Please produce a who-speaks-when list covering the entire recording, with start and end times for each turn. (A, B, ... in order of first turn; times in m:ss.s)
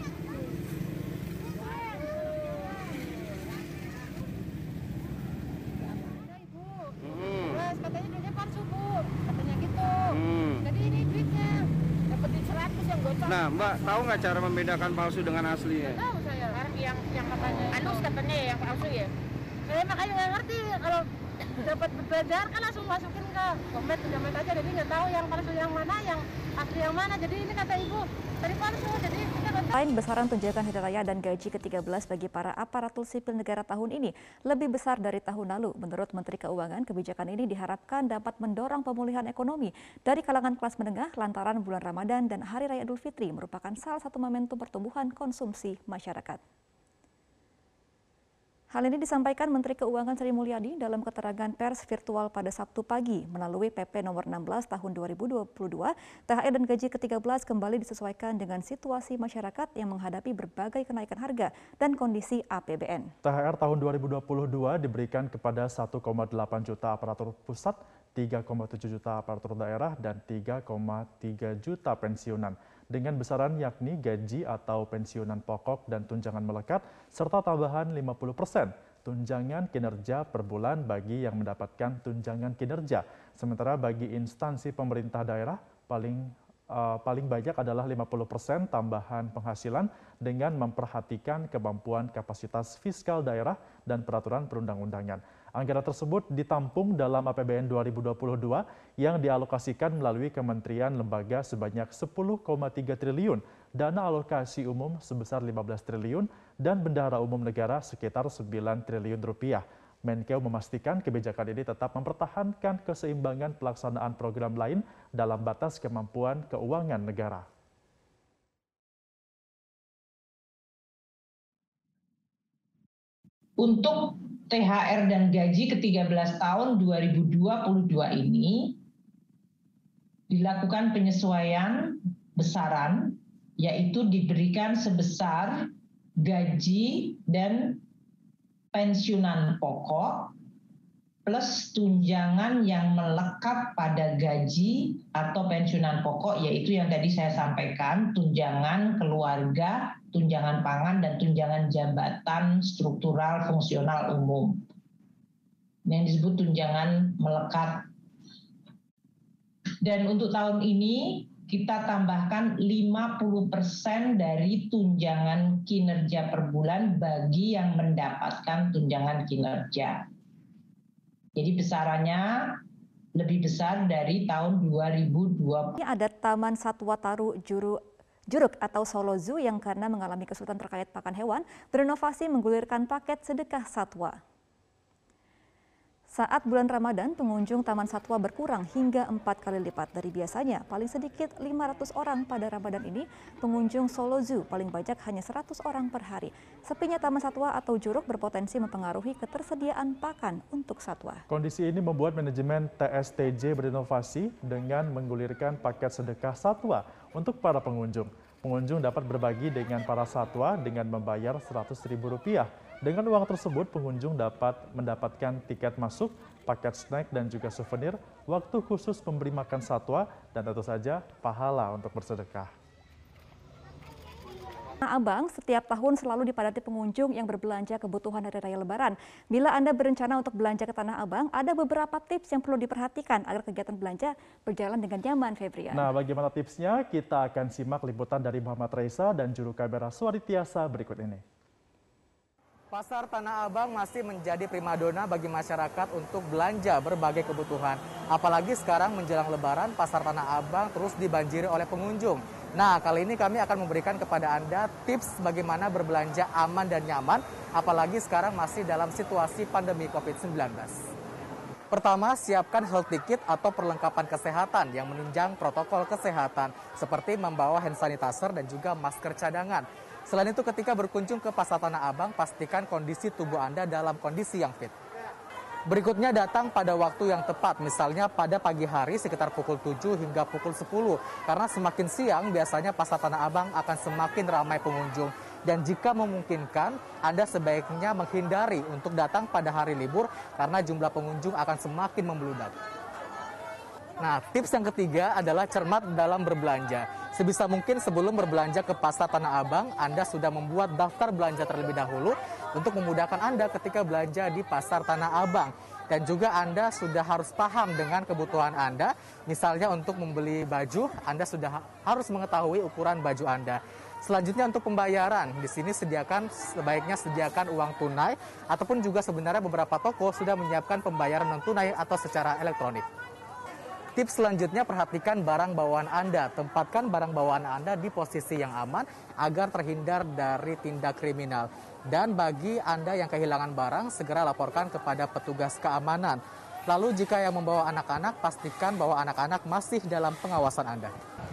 0:06.1-0:07.0 A
0:07.0-0:07.6 B
0:07.6-0:14.1 A
0:10.2-0:10.6 B
0:13.2-0:16.0 B
0:15.9-0:19.1 A
0:17.4-0:17.7 B
0:19.7-0:21.0 A
0:21.6-0:29.7 A
0:29.7-0:46.4 C
0:48.7-1:03.1 C
1:03.2-1:57.4 D
2:03.6-2:08.8 E
2:10.3-2:15.7 E
2:16.2-2:17.8 E
2:18.7-2:20.3 E
2:21.2-2:34.6 E
2:35.8-2:37.9 E
2:39.8-2:50.0 E
2:51.4-2:52.6 E
2:53.2-2:55.8 E
2:55.8-2:57.8 C
2:58.3-3:04.2 C
3:06.1-3:21.2 C
3:21.3-3:42.5 D
3:44.8-3:55.9 C
3:55.7-4:01.2 D
4:02.7-4:20.8 F
4:21.7-4:34.7 F
4:35.7-4:52.5 F
4:54.0-5:22.8 F
5:24.0-5:40.9 F